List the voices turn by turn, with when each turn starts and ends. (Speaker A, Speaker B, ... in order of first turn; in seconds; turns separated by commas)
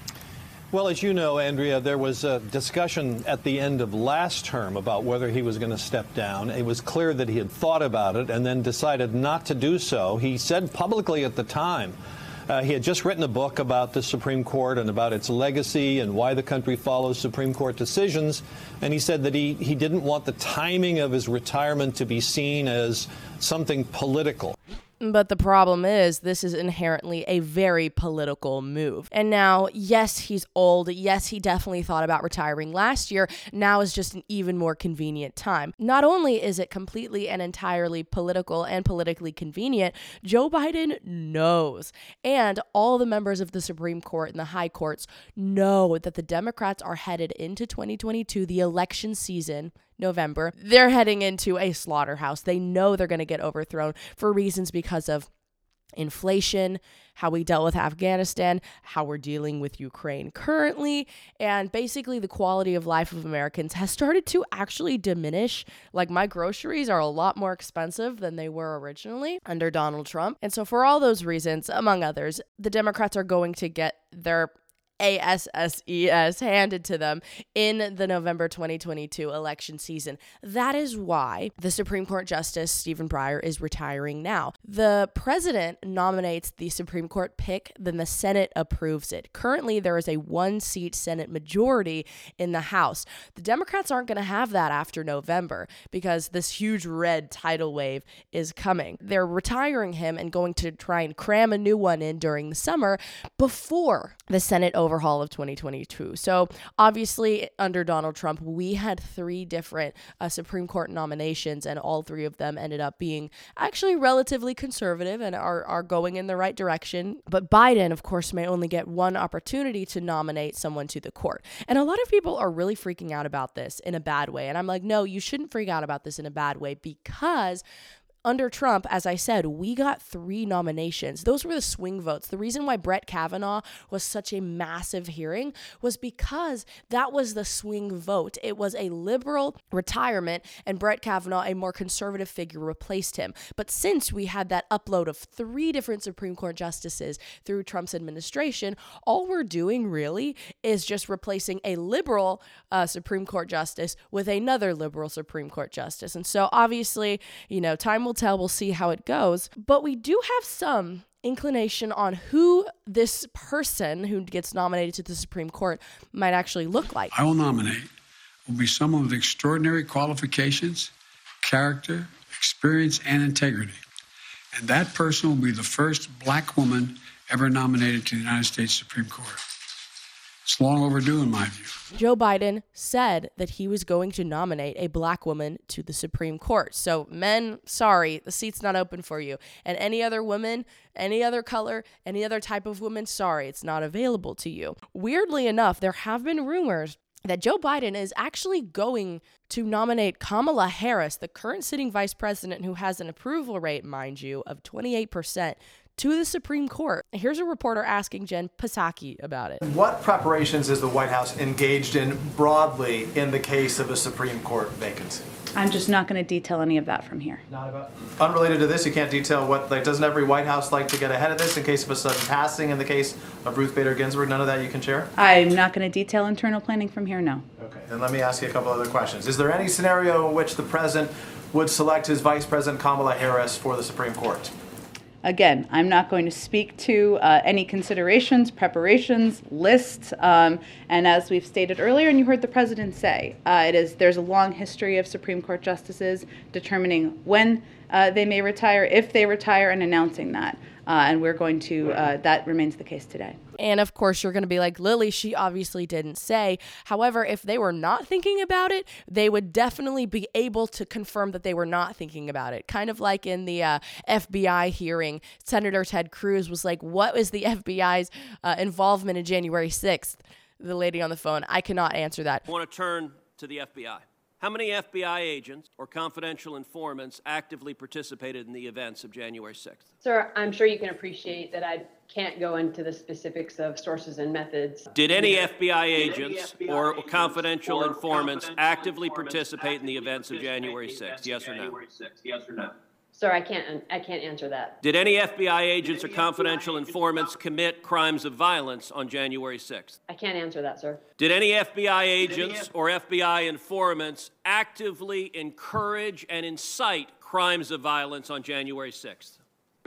Speaker A: 0.7-12.0, Speaker A: 12.5-24.6, Speaker B: 25.0-55.3, Speaker B: 56.0-127.6, Speaker B: 128.2-167.1, Speaker C: 167.1-167.9, Speaker C: 168.5-173.8, Speaker C: 174.5-179.4, Speaker C: 180.4-181.8, Speaker B: 182.0-209.6, Speaker D: 209.6-215.2, Speaker E: 215.6-217.4, Speaker D: 217.5-225.1, Speaker E: 225.2-227.5, Speaker D: 227.6-234.5, Speaker E: 235.2-253.4, Speaker B: 253.6-272.4, Speaker F: 272.5-279.9, Speaker G: 280.0-285.5, Speaker F: 284.9-292.1, Speaker G: 293.1-294.8, Speaker F: 294.8-300.0, Speaker G: 300.1-301.0, Speaker F: 301.2-309.4